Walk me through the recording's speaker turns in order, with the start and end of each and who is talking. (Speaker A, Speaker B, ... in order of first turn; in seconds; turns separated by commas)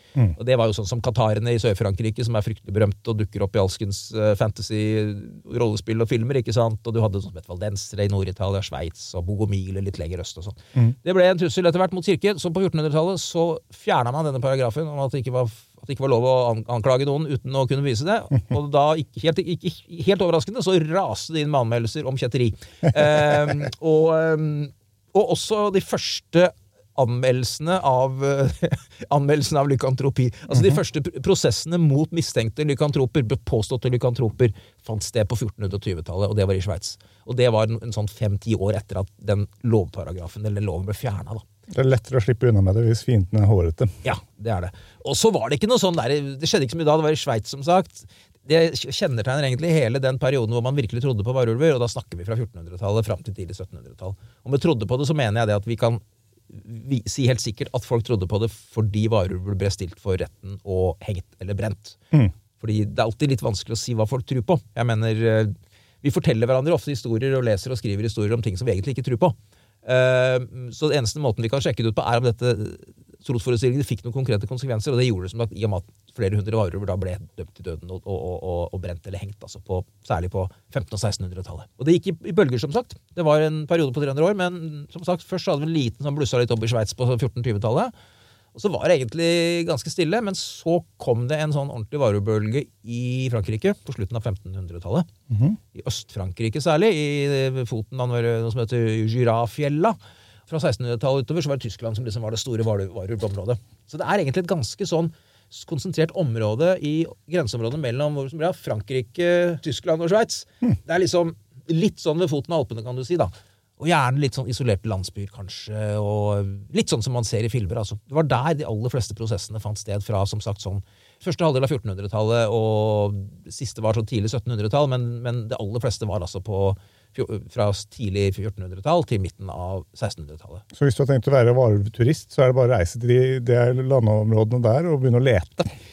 Speaker A: 0.3-41.4, Speaker B: 30.5-30.8, Speaker B: 41.7-44.0, Speaker A: 44.0-62.0, Speaker A: 62.6-87.9, Speaker A: 88.5-95.1, Speaker B: 95.3-95.6, Speaker A: 95.7-100.0, Speaker A: 100.5-130.6, Speaker B: 130.7-135.7